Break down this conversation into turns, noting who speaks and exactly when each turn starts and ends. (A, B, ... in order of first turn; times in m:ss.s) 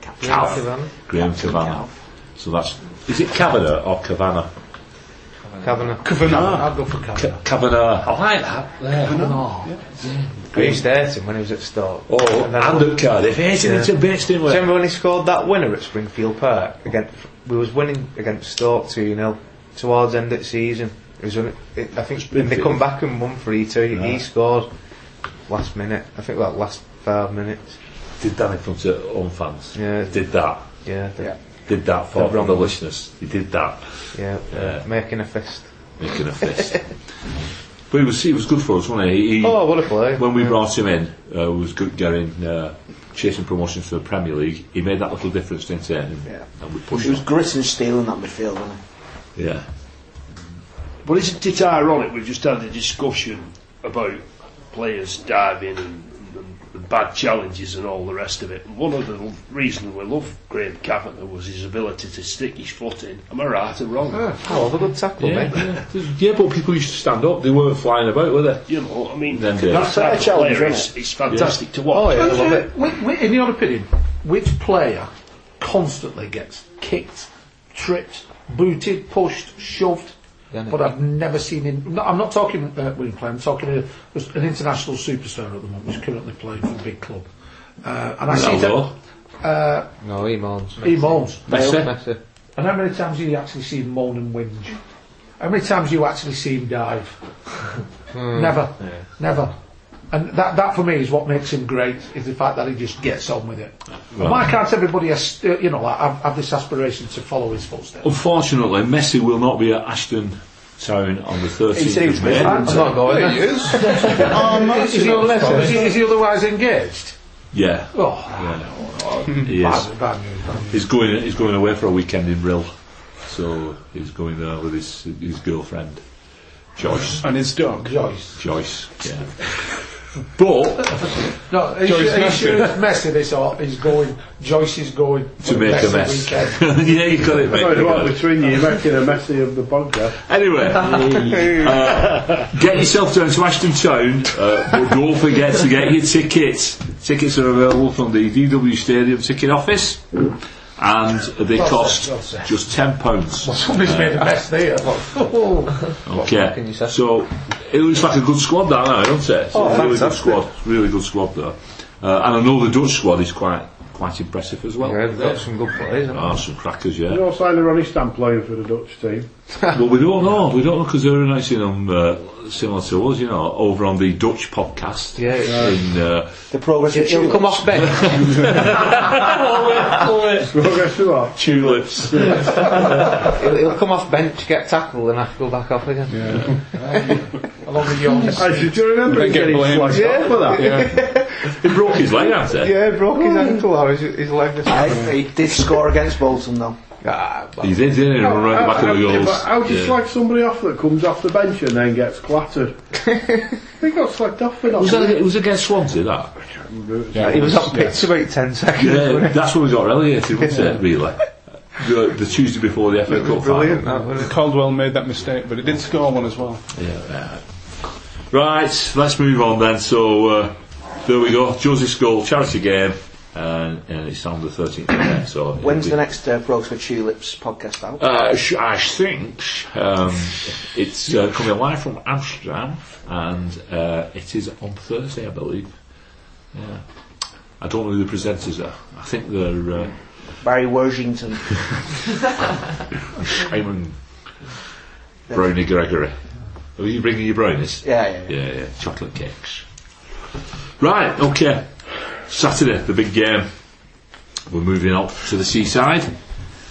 0:00.2-0:01.0 A
0:00.2-0:04.5 B
0:01.2-0:01.9 C
0:05.6-0:06.6 A
0:06.2-0:07.4 D
0:06.2-0:09.3 B
0:06.2-0:06.6 E
0:09.0-0:09.8 D
0:09.0-0:09.9 E
0:10.0-0:10.8 B
0:10.5-0:13.0 A
0:12.1-0:14.7 B
0:13.6-0:24.7 A
0:22.3-0:22.8 B
0:23.9-0:24.2 B
0:25.5-0:27.8 A
0:28.2-0:30.7 B
0:29.7-0:30.3 A
0:30.8-0:31.4 A
0:31.7-0:34.8 B
0:32.1-0:32.7 A
0:34.1-0:35.7 A
0:36.0-0:37.0 B
0:37.9-0:47.2 B
0:39.4-0:40.6 A
0:46.3-0:48.8 C
0:49.4-0:49.6 B
0:51.0-1:04.3 F
1:04.1-1:05.6 A
1:05.2-1:08.7 B
1:08.7-1:12.5 F
1:09.3-1:10.1 B
1:09.7-1:10.9 C
1:11.9-1:12.7 A
1:12.1-1:20.1 D
1:20.5-1:20.9 A
1:20.7-1:27.3 D
1:27.8-1:28.9 D
1:28.3-1:28.9 B
1:29.4-1:29.9 D
1:30.0-1:32.2 A
1:30.8-1:31.4 D
1:31.5-1:31.9 B
1:32.6-1:34.8 D
1:35.4-1:37.2 D
1:38.1-1:38.6 A
1:38.3-1:39.5 D
1:40.1-1:48.1 D
1:44.1-1:44.5 B
1:48.0-1:53.0 B
1:52.0-1:53.0 G
1:52.2-1:55.8 A
1:53.1-1:57.2 D
1:54.2-1:55.8 E
1:57.5-1:58.7 B
1:57.9-2:00.8 D
1:59.3-1:59.9 B
2:00.7-2:06.0 B
2:06.8-2:07.2 B
2:07.1-2:08.0 E
2:07.8-2:08.4 D
2:08.4-2:11.3 B
2:10.9-2:16.7 D
2:11.8-2:12.7 E
2:15.4-2:18.3 B
2:17.5-2:20.2 G
2:20.2-2:30.2 B
2:20.8-2:21.8 A
2:30.8-2:34.3 B
2:31.5-2:32.5 D
2:33.4-2:35.8 D
2:36.0-2:45.4 B
2:36.1-2:37.0 A
2:39.5-2:40.4 A
2:44.8-2:46.4 A
2:46.1-2:47.2 B
2:47.1-2:49.3 G
2:49.7-2:56.4 B
2:55.2-2:55.7 A
2:55.5-2:55.7 G
2:56.5-2:57.7 C
2:56.9-2:59.0 A
2:57.6-3:00.8 B
3:00.4-3:03.1 G
3:01.3-3:03.2 B
3:02.7-3:07.2 A
3:06.1-3:06.5 E
3:06.7-3:08.8 D
3:08.2-3:10.9 G
3:09.0-3:11.0 E
3:09.9-3:11.7 A
3:11.5-3:12.8 B
3:12.5-3:15.2 A
3:13.1-3:13.6 G
3:14.6-3:16.8 C
3:17.0-3:17.7 A
3:17.6-3:20.0 B
3:18.2-3:22.8 G
3:23.8-3:25.2 G
3:24.7-3:26.3 B
3:26.5-3:27.8 G
3:27.1-3:28.0 E
3:27.2-3:29.4 A
3:28.8-3:33.8 B
3:30.4-3:30.8 A
3:33.1-3:34.4 A
3:33.8-3:36.6 E
3:36.7-3:46.0 B
3:45.6-3:48.0 C
3:48.0-3:55.7 B
3:56.5-3:56.8 B
3:57.6-4:00.2 B
4:00.2-4:01.8 C
4:03.3-4:04.0 B
4:05.3-4:06.2 B
4:06.8-4:09.6 B
4:07.8-4:08.3 C
4:10.8-4:13.5 B
4:14.5-4:16.2 B